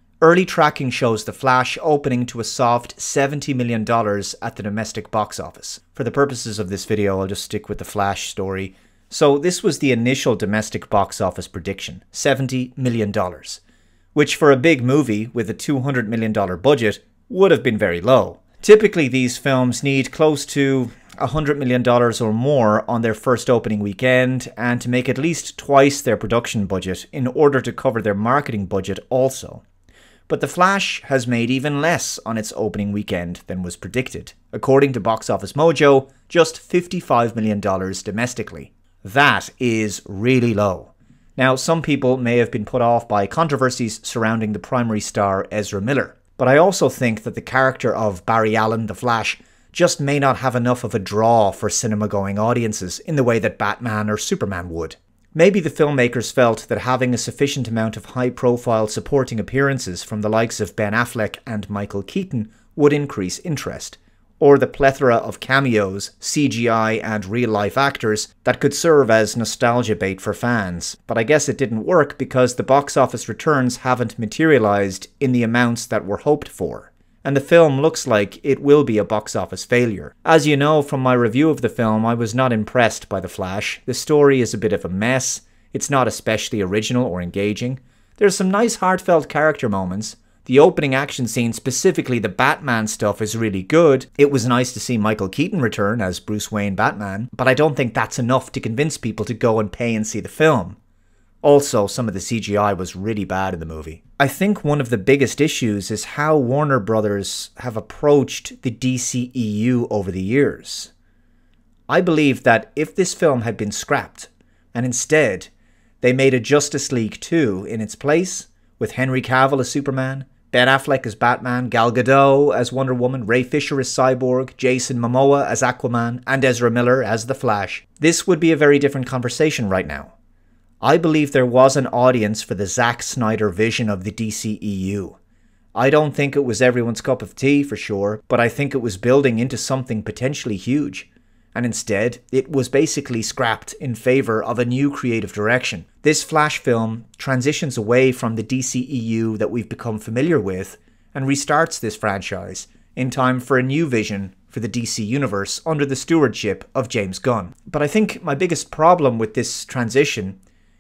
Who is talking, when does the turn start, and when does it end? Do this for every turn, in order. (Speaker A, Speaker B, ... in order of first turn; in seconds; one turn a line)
Speaker A: 0.2-13.6
Speaker A: 14.2-29.6
Speaker A: 30.3-100.8
Speaker A: 101.4-110.9
Speaker A: 111.9-130.1
Speaker A: 130.8-135.2
Speaker A: 135.8-160.4